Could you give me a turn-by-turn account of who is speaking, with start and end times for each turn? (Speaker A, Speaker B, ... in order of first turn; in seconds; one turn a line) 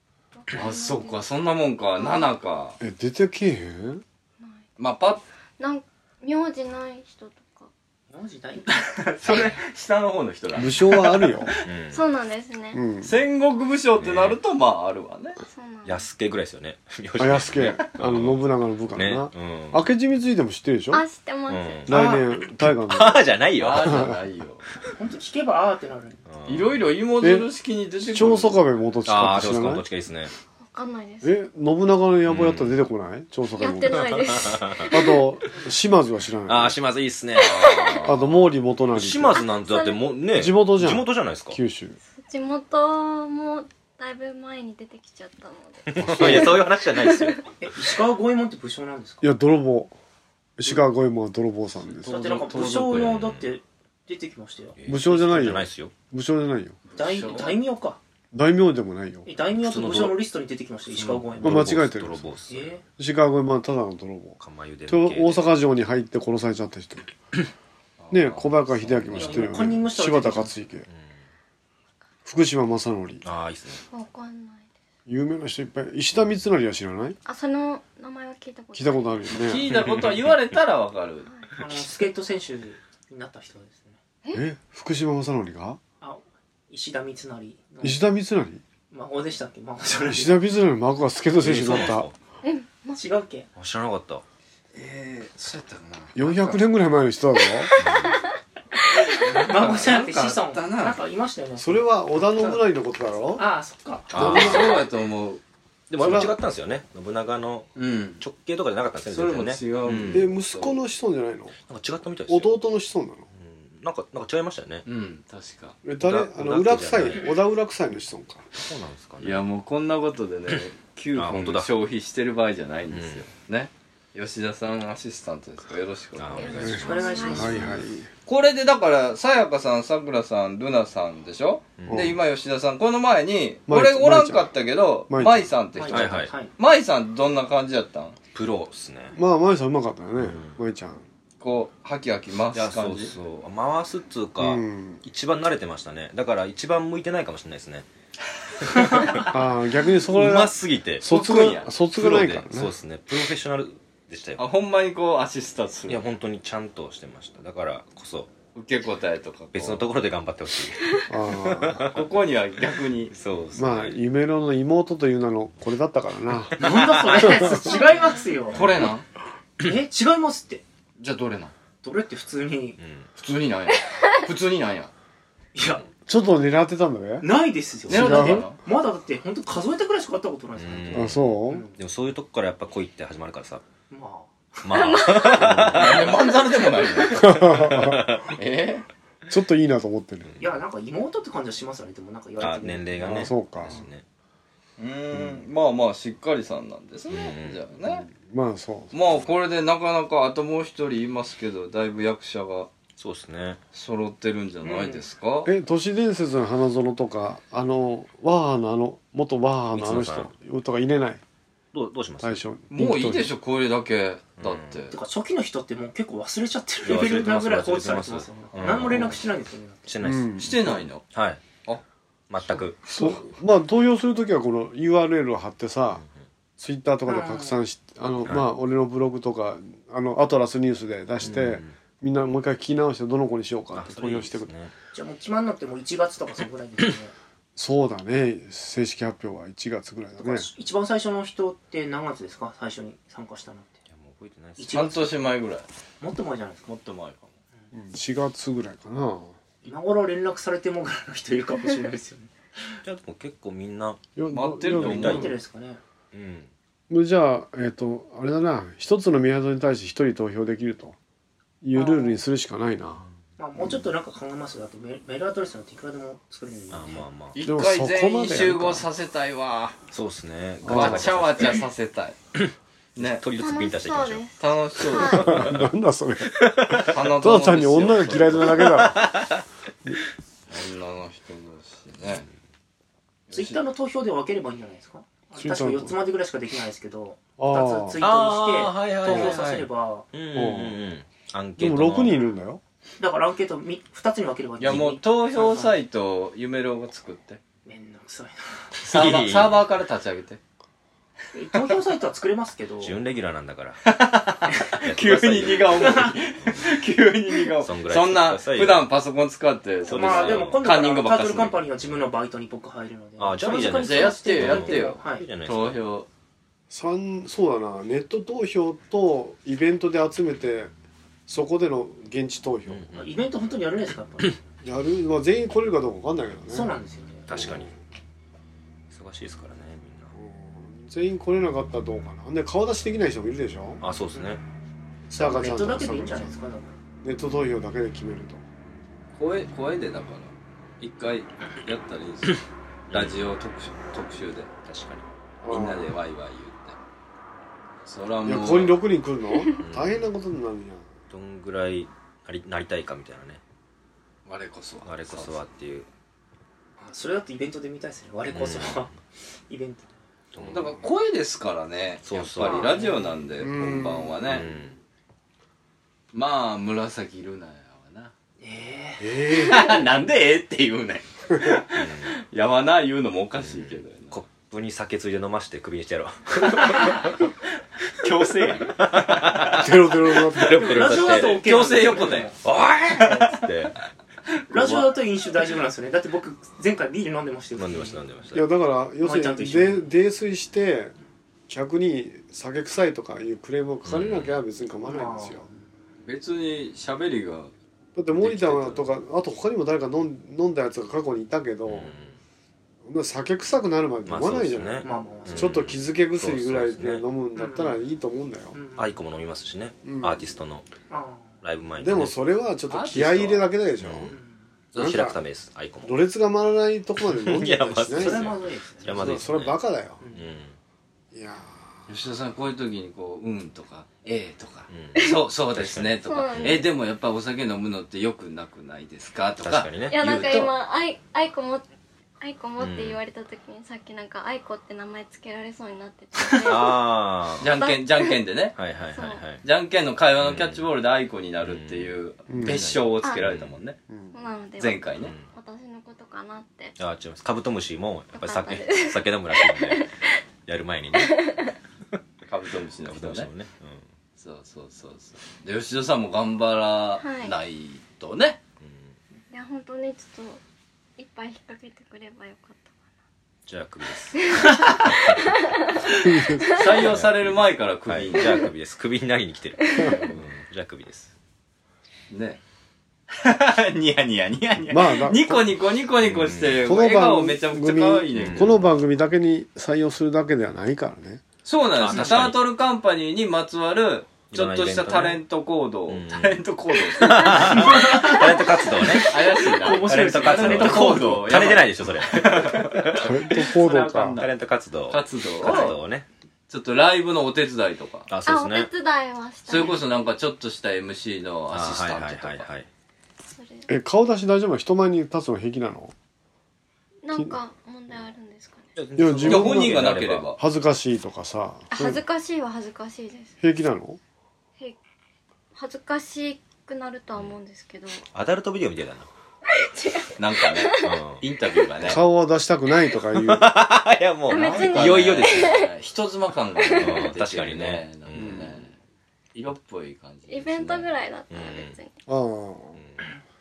Speaker A: 0.3-1.2
Speaker B: 0.5-2.8
Speaker A: 2.0-2.3
Speaker C: 2.8-4.0
Speaker B: 4.8-5.2
Speaker A: 5.6-7.7
Speaker D: 8.1-9.5
Speaker B: 9.0-11.4
Speaker C: 10.6-11.5
Speaker E: 11.6-12.0
Speaker A: 11.9-12.8
Speaker C: 12.7-13.2
Speaker B: 13.0-15.4
Speaker E: 14.0-14.4
Speaker A: 15.5-16.1
Speaker E: 15.8-18.4
Speaker C: 17.2-21.0
Speaker E: 18.9-19.8
Speaker A: 20.9-22.2
Speaker E: 21.5-22.2
Speaker C: 21.9-23.2
Speaker E: 22.8-24.1
Speaker B: 23.6-24.6
Speaker C: 23.8-24.1
Speaker D: 25.0-26.2
Speaker E: 26.3-26.8
Speaker B: 26.5-28.6
Speaker C: 27.2-27.5
Speaker C: 28.0-29.8
Speaker E: 29.1-30.3
Speaker A: 30.7-31.4
Speaker C: 31.2-34.1
Speaker E: 32.3-32.7
Speaker A: 33.6-35.1
Speaker E: 34.0-34.9
Speaker C: 34.9-36.8
Speaker E: 36.5-38.0
Speaker B: 37.4-38.4
Speaker A: 37.5-37.9
Speaker C: 38.1-39.4
Speaker E: 38.9-41.6
Speaker A: 39.3-40.1
Speaker C: 40.4-42.0
Speaker A: 42.1-47.4
Speaker E: 45.9-47.4
Speaker B: 46.2-46.5
Speaker D: 47.6-49.3
Speaker C: 49.2-50.0
Speaker C: 50.6-52.2
Speaker B: 52.0-53.3
Speaker D: 52.1-54.9
Speaker E: 52.8-53.5
Speaker E: 54.8-56.0
Speaker C: 54.9-56.8
Speaker B: 56.9-57.6
Speaker D: 57.0-58.0
Speaker C: 58.3-59.3
Speaker D: 59.2-61.8
Speaker E: 59.6-60.2
Speaker B: 60.9-61.3
Speaker E: 61.0-62.8
Speaker C: 61.4-62.3
Speaker D: 62.5-62.8
Speaker C: 63.0-67.1
Speaker E: 64.4-65.5
Speaker B: 68.0-69.7
Speaker C: 68.1-70.9
Speaker D: 69.1-70.5
Speaker E: 70.9-71.1
Speaker C: 72.2-73.2
Speaker E: 73.2-73.8
Speaker A: 73.9-74.7
Speaker C: 75.1-77.2
Speaker A: 77.3-79.3
Speaker C: 78.7-79.8
Speaker B: 79.3-81.3
Speaker D: 81.6-84.0
Speaker C: 84.3-85.8
Speaker D: 86.0-88.0
Speaker C: 87.8-88.6
Speaker D: 88.9-90.4
Speaker C: 90.0-92.1
Speaker E: 91.4-92.2
Speaker A: 92.4-93.0
Speaker D: 92.9-93.5
Speaker E: 93.6-94.2
Speaker B: 94.7-96.6
Speaker C: 96.2-97.7
Speaker A: 97.7-98.2
Speaker E: 97.8-98.2
Speaker B: 99.2-101.0
Speaker D: 99.3-101.9
Speaker C: 101.6-103.4
Speaker D: 103.4-104.8
Speaker E: 104.1-104.9
Speaker B: 104.2-105.4
Speaker C: 104.2-104.7
Speaker E: 105.9-110.3
Speaker C: 106.0-106.3
Speaker B: 107.8-108.2
Speaker B: 109.1-110.8
Speaker C: 110.1-111.5
Speaker E: 111.7-112.5
Speaker C: 112.3-113.3
Speaker E: 113.3-114.8
Speaker B: 114.9-115.8
Speaker C: 115.8-118.5
Speaker E: 116.0-117.3
Speaker E: 118.5-119.4
Speaker B: 119.2-126.7
Speaker E: 121.2-121.7
Speaker E: 122.9-123.2
Speaker E: 126.2-126.9
Speaker A: 126.3-127.6
Speaker C: 126.6-128.1
Speaker D: 126.8-127.8
Speaker B: 128.3-138.2
Speaker E: 131.8-132.2
Speaker C: 131.9-132.2
Speaker C: 133.7-134.5
Speaker C: 135.1-135.5
Speaker D: 135.8-136.5
Speaker E: 135.9-136.3
Speaker E: 138.3-139.2
Speaker C: 139.2-141.0
Speaker E: 140.2-140.6
Speaker B: 141.4-143.1
Speaker E: 142.5-147.9
Speaker C: 144.4-145.0
Speaker E: 148.7-149.3
Speaker D: 148.8-149.2
Speaker C: 149.3-152.7
Speaker E: 150.1-151.1
Speaker B: 151.1-151.7
Speaker E: 152.0-154.4
Speaker B: 154.4-156.0
Speaker E: 155.9-158.3
Speaker B: 158.6-159.9
Speaker E: 159.5-162.0
Speaker C: 161.1-161.9
Speaker B: 161.9-163.2
Speaker E: 163.1-164.0
Speaker C: 163.6-166.5
Speaker E: 166.6-167.5
Speaker D: 166.6-168.7
Speaker B: 168.5-169.1
Speaker D: 169.6-170.6
Speaker B: 171.0-171.5
Speaker D: 171.8-172.8
Speaker E: 172.8-173.1
Speaker B: 173.2-174.9
Speaker D: 175.6-175.8
Speaker C: 176.1-177.3
Speaker D: 177.2-181.8
Speaker B: 177.9-178.6
Speaker C: 177.9-178.5
Speaker E: 180.6-183.6
Speaker C: 180.9-181.7
Speaker D: 183.9-184.9
Speaker E: 184.6-186.3
Speaker A: 184.7-185.6
Speaker B: 185.5-188.9
Speaker C: 187.2-188.1
Speaker E: 187.2-188.4
Speaker C: 189.3-190.3
Speaker D: 190.4-193.2
Speaker E: 192.4-194.0
Speaker C: 193.0-193.8
Speaker B: 194.8-198.1
Speaker C: 195.2-195.4
Speaker E: 197.1-197.6
Speaker C: 197.9-199.1
Speaker B: 198.9-202.7
Speaker E: 203.0-203.6
Speaker B: 203.7-205.5
Speaker D: 204.6-205.1
Speaker C: 205.4-211.2
Speaker E: 209.8-210.3
Speaker E: 211.7-212.4
Speaker C: 212.2-213.3
Speaker B: 212.7-215.0
Speaker E: 214.4-214.8
Speaker D: 214.9-220.0
Speaker E: 216.8-219.2
Speaker E: 219.9-220.4
Speaker C: 220.0-220.8
Speaker B: 220.4-221.1
Speaker E: 221.1-221.4
Speaker E: 222.3-223.2
Speaker C: 222.9-226.0
Speaker C: 226.6-234.5
Speaker D: 227.1-227.6
Speaker E: 228.2-228.5
Speaker E: 231.2-231.7
Speaker E: 233.8-234.7
Speaker D: 234.9-237.1
Speaker C: 237.6-240.5
Speaker D: 240.2-243.8
Speaker E: 243.9-244.8
Speaker D: 244.6-245.2
Speaker B: 244.7-245.7
Speaker D: 246.0-246.7
Speaker B: 246.7-247.3
Speaker C: 247.7-249.4
Speaker D: 249.6-252.3
Speaker E: 252.8-254.0
Speaker C: 254.2-255.3
Speaker B: 254.3-255.3
Speaker E: 254.8-255.3
Speaker D: 254.9-255.8
Speaker E: 256.1-256.5
Speaker C: 256.9-261.0
Speaker C: 261.6-263.1
Speaker D: 261.7-262.2
Speaker D: 263.4-267.1
Speaker E: 266.7-267.4
Speaker B: 267.4-269.8
Speaker C: 267.4-268.9
Speaker E: 269.9-271.6
Speaker C: 270.6-271.1
Speaker B: 270.7-272.2
Speaker E: 272.4-274.3
Speaker B: 273.0-273.2
Speaker A: 273.4-275.3
Speaker B: 274.4-275.6
Speaker C: 275.2-279.1
Speaker E: 275.3-275.7
Speaker E: 276.4-276.9
Speaker B: 276.8-278.7
Speaker E: 278.6-279.4
Speaker B: 280.5-282.3
Speaker B: 283.3-283.6
Speaker D: 283.3-290.1
Speaker C: 285.4-286.0
Speaker C: 287.4-288.0
Speaker E: 288.0-292.2
Speaker C: 289.1-289.4
Speaker C: 290.3-290.8
Speaker C: 291.6-292.6
Speaker D: 293.0-295.8
Speaker B: 294.6-297.4
Speaker D: 297.7-298.7
Speaker E: 298.8-299.6
Speaker B: 298.8-300.4
Speaker D: 301.3-303.0
Speaker E: 302.8-303.8
Speaker B: 303.9-311.6
Speaker E: 304.8-306.7
Speaker D: 305.6-306.1
Speaker E: 307.6-308.9
Speaker E: 309.9-310.6
Speaker D: 309.9-315.3
Speaker E: 313.2-315.8
Speaker B: 313.7-316.1
Speaker C: 316.7-320.7
Speaker C: 321.3-322.9
Speaker E: 322.7-323.2
Speaker D: 322.9-324.4
Speaker C: 324.6-326.7
Speaker D: 326.5-327.5
Speaker E: 327.3-327.7
Speaker C: 327.3-327.8
Speaker E: 328.9-330.1
Speaker C: 330.1-333.8
Speaker E: 333.8-334.4
Speaker D: 335.1-336.7
Speaker C: 335.1-336.3
Speaker C: 337.0-338.4
Speaker B: 339.2-344.5
Speaker E: 342.9-343.2
Speaker E: 344.6-345.1
Speaker C: 345.4-345.9
Speaker B: 345.4-346.8
Speaker B: 347.9-348.8
Speaker C: 348.2-350.9
Speaker E: 349.6-350.0
Speaker E: 351.1-353.4
Speaker B: 354.3-355.4
Speaker E: 354.8-355.9
Speaker D: 356.8-358.9
Speaker E: 358.3-358.9
Speaker D: 359.5-359.9
Speaker E: 360.3-360.8
Speaker B: 360.5-364.5
Speaker E: 362.1-362.8
Speaker D: 362.4-363.2
Speaker C: 363.4-364.2
Speaker E: 364.2-364.8
Speaker B: 366.1-368.1
Speaker D: 368.4-369.1
Speaker C: 369.0-369.6
Speaker B: 369.4-374.2
Speaker E: 371.7-372.1
Speaker E: 373.4-377.1
Speaker B: 378.0-379.6
Speaker E: 378.8-379.7
Speaker C: 379.6-381.0
Speaker E: 380.4-383.7
Speaker D: 380.5-382.4
Speaker B: 380.9-382.3
Speaker B: 383.0-383.5
Speaker D: 384.5-388.0
Speaker E: 384.5-384.9
Speaker E: 387.6-388.4
Speaker C: 388.3-390.9
Speaker D: 389.0-389.9
Speaker C: 391.5-395.5
Speaker E: 393.9-394.4
Speaker D: 394.9-395.6
Speaker B: 396.0-397.5
Speaker C: 398.0-401.9
Speaker B: 398.2-398.8
Speaker E: 401.7-402.2
Speaker C: 402.8-408.6
Speaker E: 404.1-407.0
Speaker D: 404.8-405.6
Speaker D: 407.4-407.8
Speaker D: 408.5-409.0
Speaker E: 408.8-410.7
Speaker C: 409.8-410.2
Speaker D: 410.9-411.4
Speaker E: 411.4-412.1
Speaker C: 411.8-414.1
Speaker B: 412.7-413.5
Speaker E: 413.8-414.1
Speaker D: 414.1-414.4
Speaker E: 414.7-416.0
Speaker C: 414.8-415.2
Speaker C: 415.8-418.3
Speaker E: 417.1-419.6
Speaker D: 417.9-419.2
Speaker C: 418.9-420.0
Speaker D: 420.0-420.3
Speaker E: 420.1-420.6
Speaker C: 421.1-421.6
Speaker B: 421.9-430.5
Speaker E: 424.7-426.7
Speaker A: 426.1-426.7
Speaker E: 429.4-430.5
Speaker A: 429.9-431.7
Speaker A: 432.2-436.8
Speaker E: 432.6-433.0
Speaker E: 436.4-437.5
Speaker B: 437.4-438.6
Speaker A: 437.4-438.2
Speaker E: 438.6-439.4
Speaker A: 438.9-439.2
Speaker B: 439.4-443.8
Speaker E: 440.2-440.7
Speaker E: 441.4-441.9
Speaker C: 442.3-442.8
Speaker E: 442.5-443.6
Speaker C: 443.9-444.1
Speaker A: 444.1-446.8
Speaker B: 444.6-445.1
Speaker E: 445.0-445.3
Speaker E: 446.8-449.9
Speaker A: 448.1-450.2
Speaker E: 450.5-451.3
Speaker A: 450.9-451.5
Speaker B: 452.3-453.3
Speaker E: 452.9-453.9
Speaker B: 454.2-458.4
Speaker A: 457.0-457.4
Speaker E: 458.6-458.9
Speaker A: 459.3-460.4
Speaker A: 461.0-462.7
Speaker E: 463.5-466.0
Speaker A: 465.1-465.7
Speaker C: 466.1-466.4
Speaker B: 466.5-468.5
Speaker E: 466.6-471.1
Speaker B: 472.1-472.4
Speaker B: 473.1-478.5
Speaker C: 474.7-475.5
Speaker E: 476.0-476.6
Speaker C: 476.6-481.2
Speaker E: 478.1-478.7
Speaker B: 481.4-488.2
Speaker E: 481.8-482.4
Speaker D: 481.9-482.2
Speaker E: 484.3-485.2
Speaker E: 485.9-493.1
Speaker D: 487.3-491.3
Speaker B: 488.9-494.3
Speaker C: 492.9-494.2
Speaker E: 494.2-496.1
Speaker B: 494.9-495.8
Speaker D: 495.4-495.8
Speaker B: 496.5-498.1
Speaker E: 498.1-498.7
Speaker A: 498.3-499.8
Speaker B: 499.5-502.5
Speaker E: 501.5-502.7
Speaker A: 503.4-503.7
Speaker C: 503.7-505.9
Speaker A: 507.0-508.7
Speaker E: 508.8-510.3
Speaker C: 509.0-512.0
Speaker B: 509.2-510.4
Speaker A: 511.7-513.4
Speaker C: 513.4-514.0
Speaker A: 515.5-518.0
Speaker E: 518.1-519.1
Speaker A: 519.6-521.0
Speaker B: 520.2-522.0
Speaker E: 520.8-521.2
Speaker C: 521.8-523.5
Speaker E: 523.2-525.6
Speaker A: 524.3-525.7
Speaker B: 524.3-528.8
Speaker A: 526.6-527.0
Speaker E: 526.7-528.5
Speaker C: 528.1-528.5
Speaker B: 529.3-530.9
Speaker A: 530.3-531.9
Speaker E: 531.3-531.8
Speaker C: 532.1-532.8
Speaker E: 532.8-533.0